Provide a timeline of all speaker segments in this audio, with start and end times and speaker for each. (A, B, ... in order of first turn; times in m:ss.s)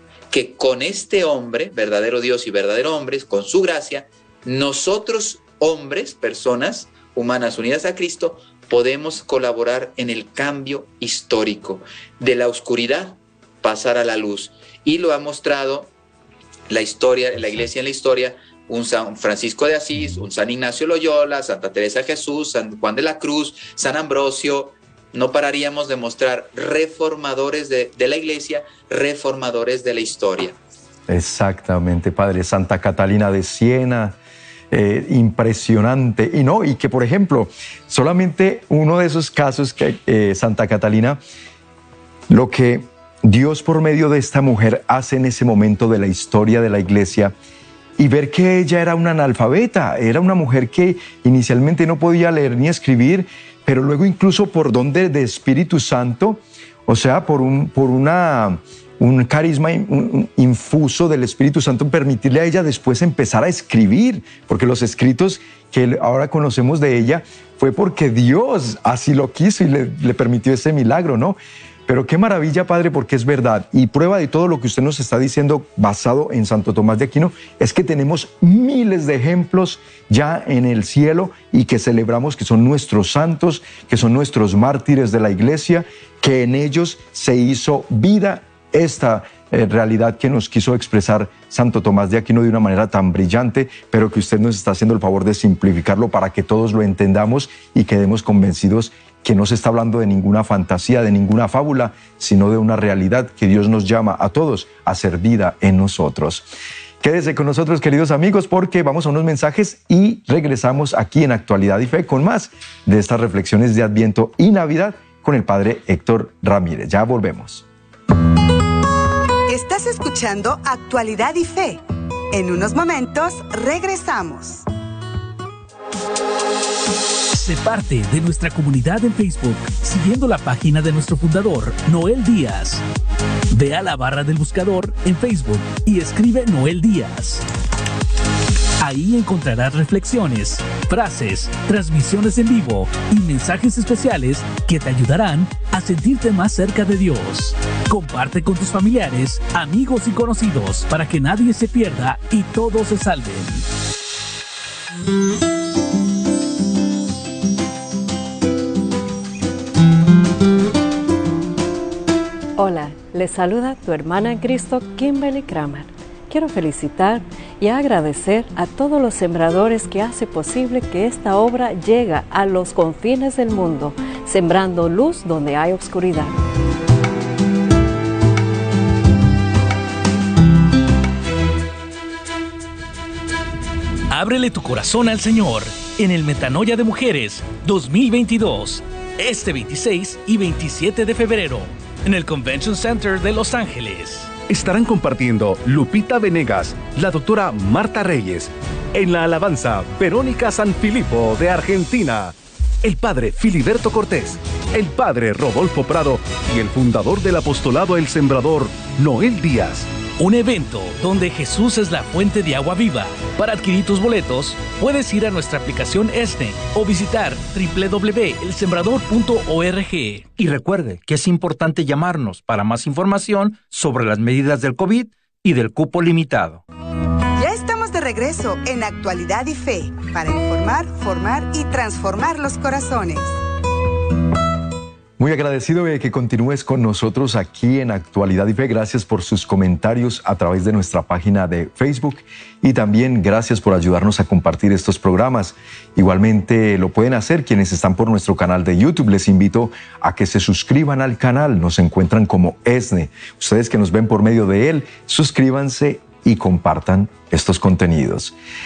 0:00.3-0:15.9 A
0:16.7-0:30.6 A
0:31.1-0:34.2 B
0:34.7-0:41.2 B
0:42.3-0:47.3 B
0:48.0-1:46.5 B
1:47.0-1:57.6 B
1:59.5-2:04.6 C
2:07.3-2:12.8 D
2:13.5-2:17.4 D
2:18.8-2:33.6 D
2:42.6-2:56.4 E
3:04.1-3:14.4 D
3:14.5-3:29.9 F
3:30.2-3:40.3 D
3:40.4-3:46.6 G
3:47.4-3:53.4 C
3:55.2-4:18.3 B